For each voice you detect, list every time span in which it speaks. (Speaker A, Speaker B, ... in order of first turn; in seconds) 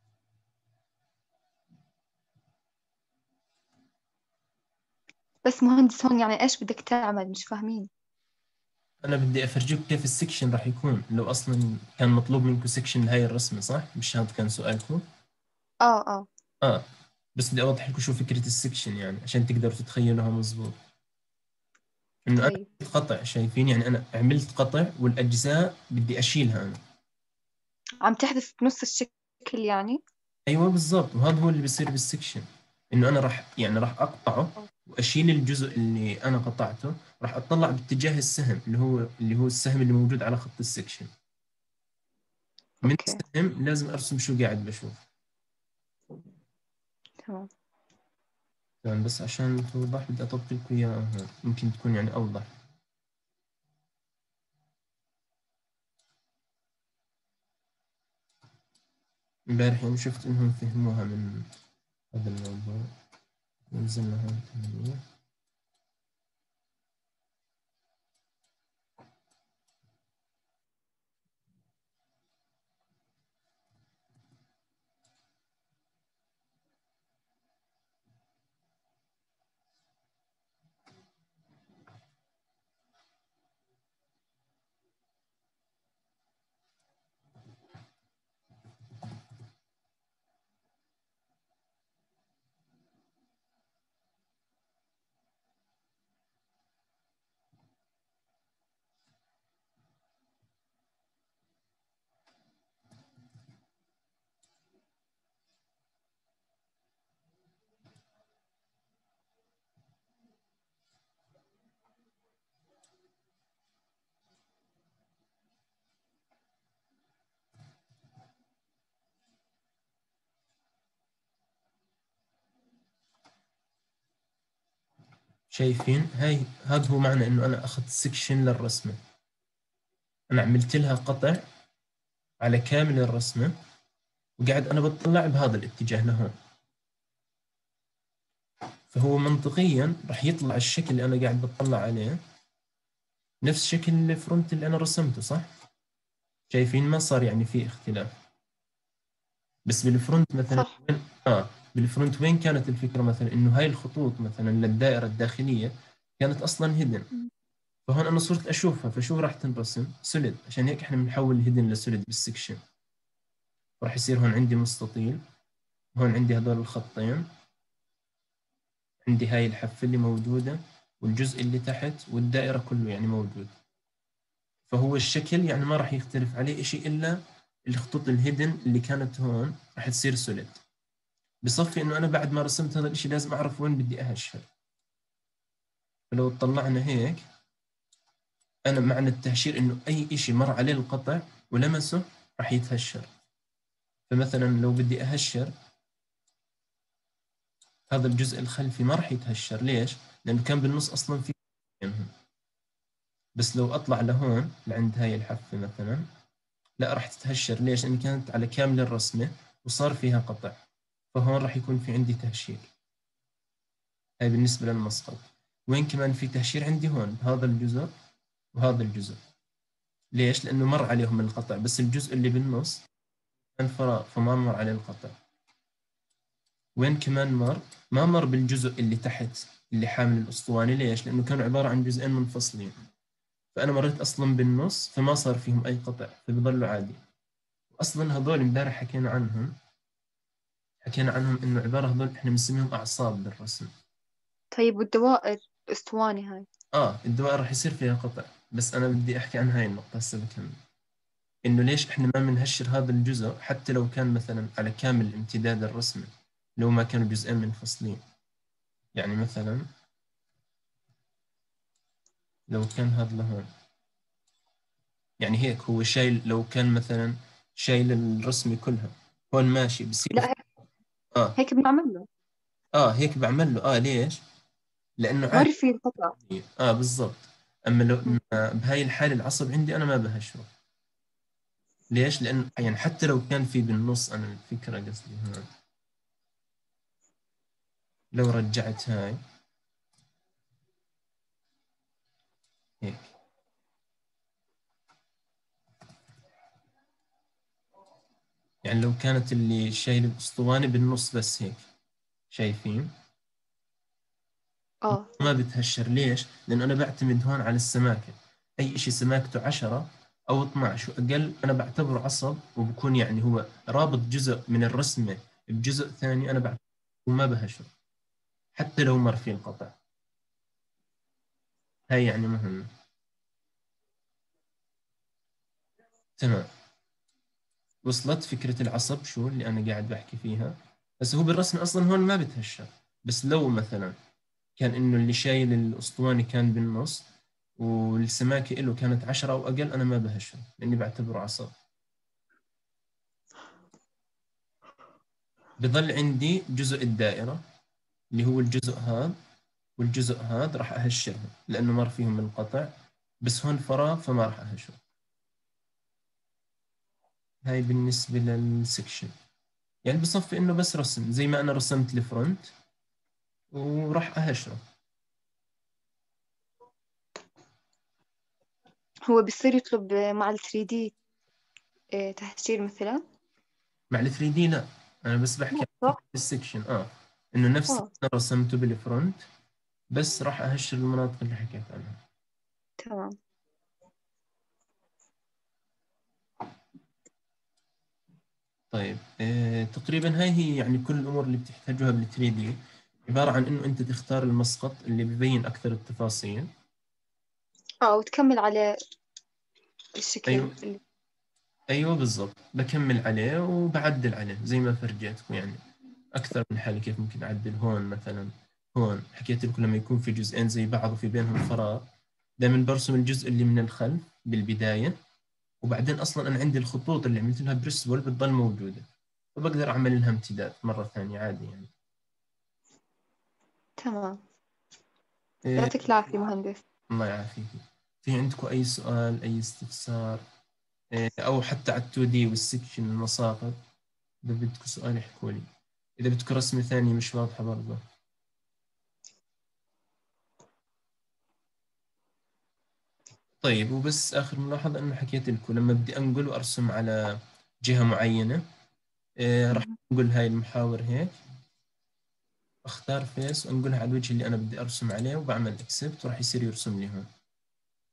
Speaker A: 5.5-7.9, 15.8-16.3, 22.4-22.7, 28.0-30.0, 42.8-43.2, 244.5-246.5, 270.1-270.4, 271.4-272.1, 275.3-276.1, 304.8-305.1, 369.1-371.0, 371.9-373.0, 375.5-376.0, 382.8-383.1, 397.8-398.8, 400.0-400.8, 423.8-424.2, 425.6-426.6, 449.5-449.8
Speaker B: 9.0-15.0, 17.4-20.8, 22.3-26.8, 30.5-41.1, 42.8-45.0, 48.8-52.5, 59.5-61.5, 62.1-62.9, 63.7-65.0, 125.5-129.0, 130.3-131.4, 132.4-133.5, 134.4-136.3, 138.9-142.2, 143.4-145.5, 146.5-148.1, 149.7-157.1, 157.9-162.6, 163.8-165.2, 166.0-167.3, 169.0-173.5, 174.7-180.6, 181.4-184.5, 186.1-187.2, 188.7-193.1, 194.1-195.5, 197.9-202.1, 203.4-206.1, 206.8-210.6, 211.1-212.7, 214.2-217.9, 218.5-219.2, 220.2-222.8, 223.6-225.2, 226.8-232.8, 233.5-237.0, 237.8-239.6, 240.8-243.7, 246.7-250.6, 251.5-258.0, 258.9-259.7, 262.5-263.5, 265.2-270.3, 272.7-274.2, 275.0-275.5, 276.2-280.5, 281.9-285.5, 288.1-289.2, 292.8-293.1, 298.6-301.6, 302.3-302.9, 304.9-317.7, 318.6-319.8, 321.9-322.7, 326.2-326.5, 327.9-333.9, 334.6-337.0, 337.6-341.5, 345.6-347.4, 348.1-349.2, 349.8-352.7, 353.2-354.8, 357.4-359.1, 359.9-362.5, 363.5-364.6, 373.9-379.2, 379.9-382.0, 388.7-396.5, 400.3-400.5, 401.7-405.6, 406.1-411.9, 412.4-415.0, 415.6-421.7, 425.4-425.8, 426.9-430.2, 430.9-433.6, 434.2-435.5, 436.0-437.8, 443.4-447.0, 447.6-448.4, 449.2-451.1, 452.6-457.1